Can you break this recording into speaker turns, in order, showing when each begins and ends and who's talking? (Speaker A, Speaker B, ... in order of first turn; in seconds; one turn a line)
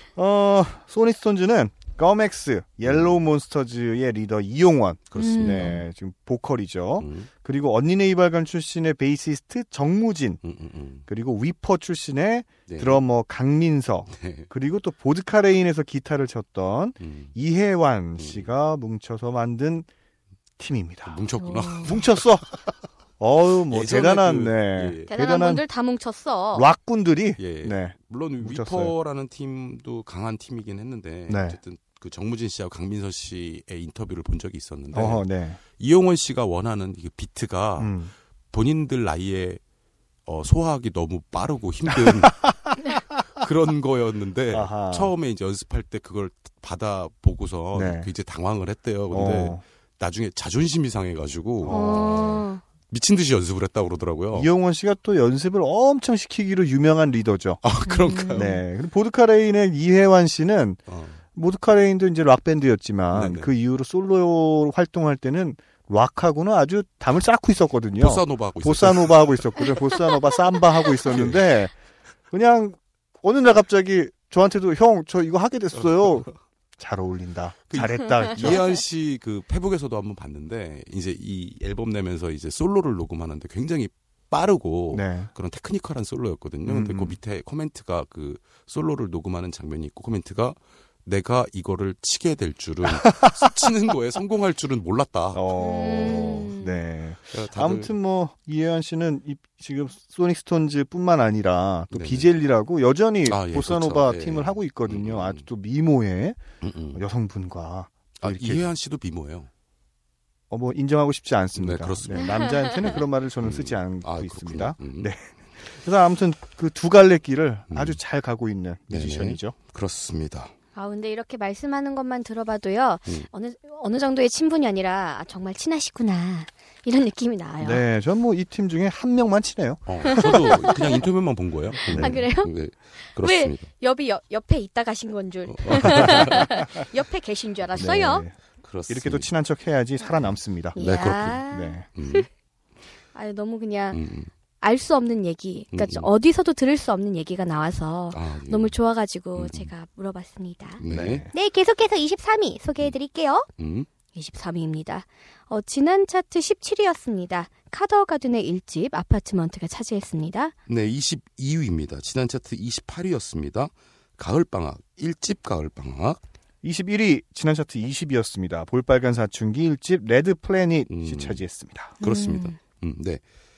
Speaker A: 0.1-10.4
Speaker B: 2.8-3.2
Speaker B: 5.1-5.8
Speaker C: 5.2-5.8
Speaker B: 7.0-7.3
Speaker B: 10.4-11.0
Speaker A: 11.1-19.9
Speaker B: 12.7-13.0
Speaker B: 14.1-14.5
Speaker B: 17.0-17.3
Speaker B: 18.2-18.5
Speaker A: 20.6-21.2
Speaker B: 21.1-22.4
Speaker C: 21.4-21.9
Speaker A: 21.8-22.5
Speaker A: 23.2-25.6
Speaker B: 23.7-25.1
Speaker C: 25.1-26.7
Speaker A: 26.5-28.9
Speaker B: 27.4-35.2
Speaker A: 31.3-31.6
Speaker A: 34.9-35.6
Speaker B: 35.8-38.0
Speaker A: 37.8-38.1
Speaker B: 38.5-39.6
Speaker B: 40.2-42.5
Speaker A: 41.9-42.5
Speaker B: 43.4-51.9
Speaker A: 44.5-45.1
Speaker A: 47.7-48.1
Speaker A: 49.1-49.6
Speaker A: 51.6-52.4
Speaker C: 51.7-52.6
Speaker B: 52.9-54.5
Speaker A: 54.3-57.6
Speaker B: 57.6-58.6
Speaker C: 57.9-58.4
Speaker A: 58.3-60.8
Speaker B: 60.9-61.2
Speaker A: 61.3-71.7
Speaker B: 63.1-63.5
Speaker B: 68.0-69.7
Speaker B: 71.0-71.5
Speaker A: 72.3-78.7
Speaker B: 77.7-96.5
Speaker A: 84.9-85.3
Speaker A: 86.6-87.2
Speaker A: 92.8-93.5
Speaker A: 95.3-108.7
Speaker C: 95.6-96.8
Speaker B: 97.3-97.9
Speaker B: 101.9-102.3
Speaker B: 103.2-105.5
Speaker B: 106.6-107.0
Speaker B: 108.2-109.5
Speaker A: 110.5-119.5
Speaker B: 111.5-112.3
Speaker C: 112.2-112.8
Speaker B: 113.4-115.1
Speaker B: 117.7-118.0
Speaker B: 118.9-120.5
Speaker C: 120.7-127.8
Speaker A: 127.6-130.8
Speaker B: 129.9-133.7
Speaker C: 130.0-130.8
Speaker A: 131.8-132.2
Speaker C: 132.0-132.5
Speaker C: 133.2-138.2
Speaker B: 135.5-136.5
Speaker A: 135.8-136.5
Speaker A: 137.8-138.3
Speaker B: 138.6-139.3
Speaker A: 138.9-140.8
Speaker B: 140.8-141.4
Speaker C: 140.8-142.2
Speaker A: 141.5-141.8
Speaker B: 141.9-142.3
Speaker C: 143.1-144.0
Speaker B: 143.9-144.3
Speaker C: 144.6-153.5
Speaker B: 145.7-146.1
Speaker B: 148.1-148.8
Speaker B: 149.3-149.7
Speaker B: 150.8-151.3
Speaker A: 150.9-151.3
Speaker B: 153.6-153.9
Speaker C: 154.1-160.5
Speaker B: 160.7-166.2
Speaker A: 166.6-171.9
Speaker B: 170.9-171.4
Speaker C: 172.0-172.6
Speaker B: 172.0-173.2